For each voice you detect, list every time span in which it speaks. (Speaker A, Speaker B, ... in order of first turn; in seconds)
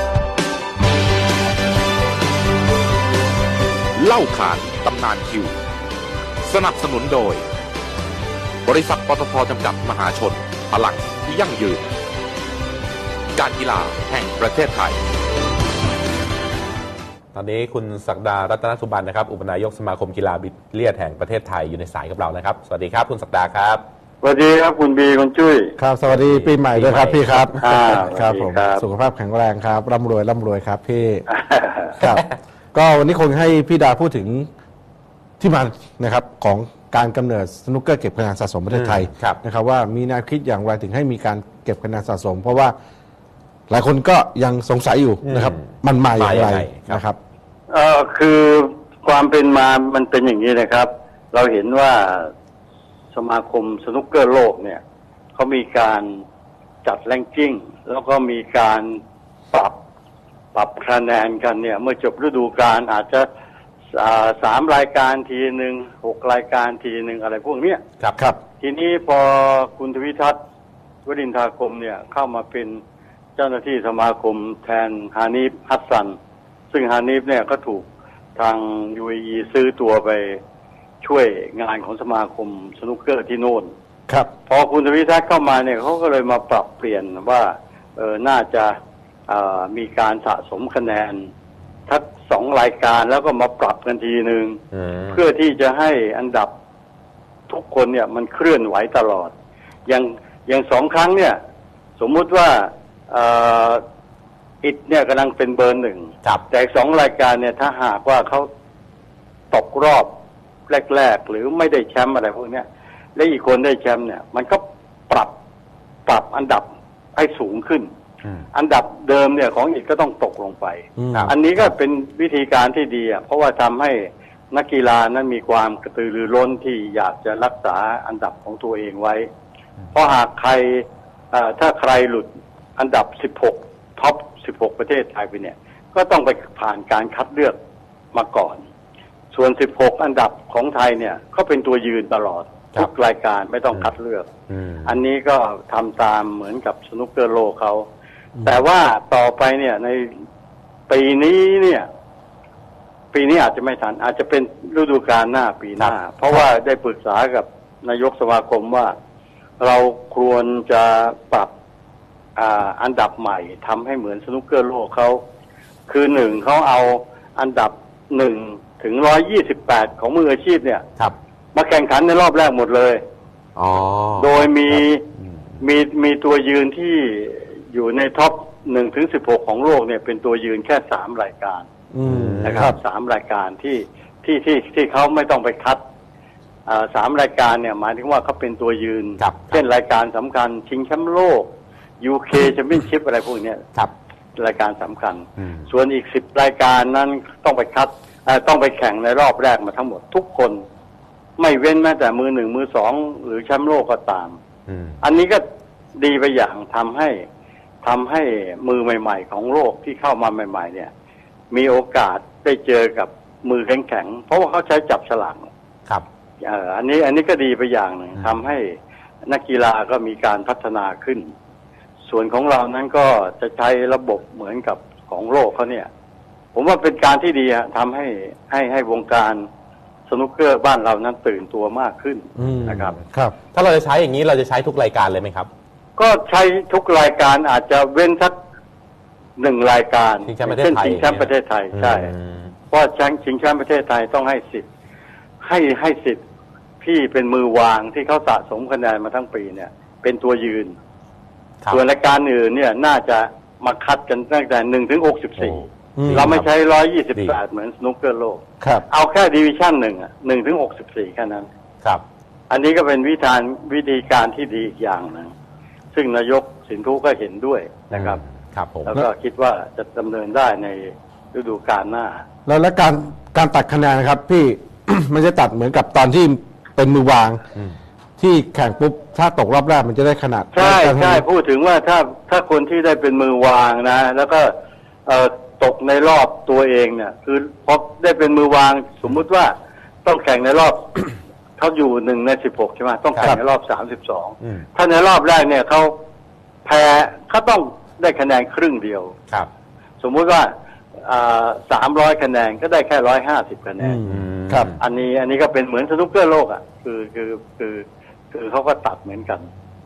Speaker A: 4.0-5.5, 6.4-7.4, 8.6-11.8, 13.3-15.0
Speaker B: 17.3-23.8, 26.0-28.0, 38.7-39.4, 45.2-47.0, 94.7-95.2, 121.1-121.7, 144.5-145.0, 173.6-175.4, 182.0-182.7, 189.2-189.6, 195.4-195.7, 204.7-205.0, 232.4-233.0, 233.5-235.5, 240.2-242.5, 255.4-256.5, 267.9-268.9, 304.0-304.8
Speaker C: 24.2-25.8, 27.6-28.8, 31.3-31.9, 47.7-52.3, 53.1-54.8, 55.3-56.2, 56.8-59.0, 59.5-59.8, 60.5-63.3, 63.9-67.8, 68.6-70.4, 71.0-72.8, 73.3-76.2, 76.7-80.4, 81.0-83.7, 84.5-88.8, 89.3-91.3, 91.9-96.5, 97.5-99.3, 99.8-101.4, 102.0-103.8, 104.6-108.5, 109.5-110.1, 110.7-115.3, 116.0-117.9, 118.5-129.3, 129.9-137.6, 138.1-138.6, 139.3-144.3, 144.8-147.8, 148.4-150.2, 150.9-151.9, 153.1-158.9, 159.6-161.5, 162.3-165.2, 165.9-170.8, 171.5-173.0, 174.2-175.0, 175.6-181.7, 182.4-185.8, 186.7-193.6, 194.4-200.6, 201.4-204.4, 205.0-205.4, 205.9-207.2, 207.8-210.9, 211.5-215.5, 216.4-218.7, 219.2-221.3, 222.1-225.9, 226.5-229.4, 230.1-232.9, 236.0-238.3, 239.4-242.1, 242.7-244.6, 245.4-246.2, 246.8-250.8, 251.7-261.5, 262.5-265.3, 265.9-268.2, 268.9-272.2, 280.5-284.5, 285.1-289.5, 290.0-295.9, 296.6-299.1, 300.0-300.5, 301.0-304.0, 304.8-309.5
Speaker D: 25.8-31.2, 32.0-34.5, 35.4-42.7, 43.7-47.2, 121.0-121.3, 181.9-182.8, 232.4-233.3, 255.9-256.4, 258.6-258.9, 272.4-277.4, 278.2-281.2, 303.8-304.7